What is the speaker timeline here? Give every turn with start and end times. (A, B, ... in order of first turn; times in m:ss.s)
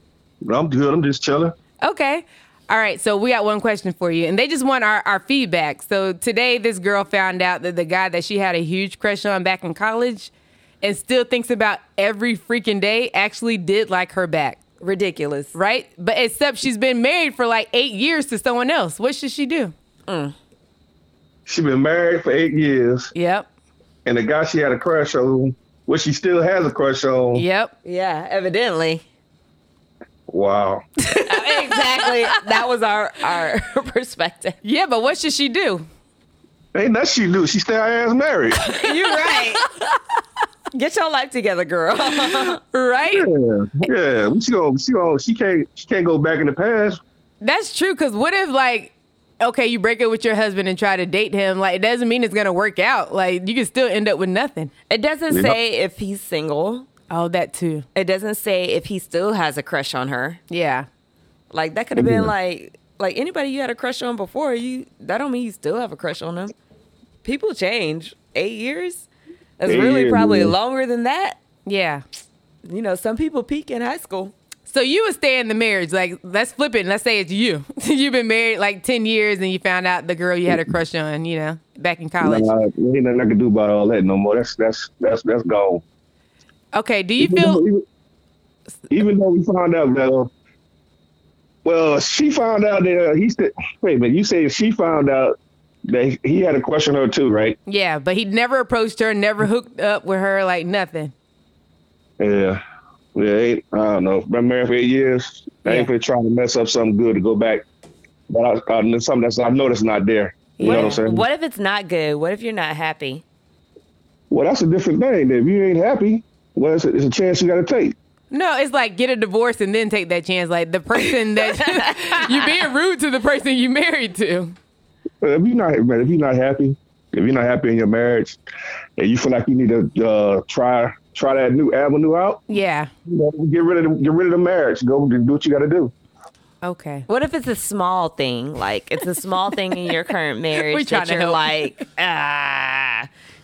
0:00.4-0:01.6 A
0:01.8-0:10.3 B
0:10.8-0:14.6 B
0:14.8-0:15.6 C
0:15.5-0:19.7 B
0:20.1-0:20.4 C
0:21.5-0:23.1 A
0:23.1-0:23.5 B
0:24.1-0:27.4 A
0:27.4-0:27.7 B
0:27.8-0:29.0 C
0:30.3-0:30.8 A
0:31.1-0:32.4 B
0:31.3-0:34.6 C
0:34.6-0:35.9 B
0:36.7-0:38.6 A
0:38.7-0:39.7 B
0:38.7-0:39.7 C
0:40.7-0:42.6 C
0:42.4-0:43.3 B
0:43.1-0:47.0 A
0:47.4-0:54.7 B
0:54.9-0:56.9 C
0:55.3-0:55.6 A
0:57.1-0:57.8 B
0:58.0-1:00.4 C
1:00.5-1:00.9 B
1:01.5-1:06.5 C
1:02.0-1:02.3 A
1:07.2-1:09.1 C
1:09.6-1:11.4 C
1:09.7-1:10.5 A
1:11.7-1:12.0 B
1:12.6-1:14.3 C
1:14.7-1:22.5 B
1:22.2-1:25.8 A
1:26.7-1:27.6 B
1:27.2-1:27.8 A
1:28.9-1:30.3 A
1:31.6-1:35.4 A
1:35.9-1:37.6 A
1:37.7-1:41.1 B
1:42.2-1:42.6 A
1:43.2-1:47.7 A
1:48.3-1:51.2 A
1:50.6-1:51.0 B
1:50.6-1:53.2 C
1:54.3-1:58.0 A
1:58.3-2:04.6 B
2:05.2-2:08.4 A
2:09.0-2:12.4 A
2:12.5-2:12.9 B
2:13.1-2:15.9 A
2:16.6-2:17.1 B
2:17.1-2:23.1 C
2:20.5-2:21.6 B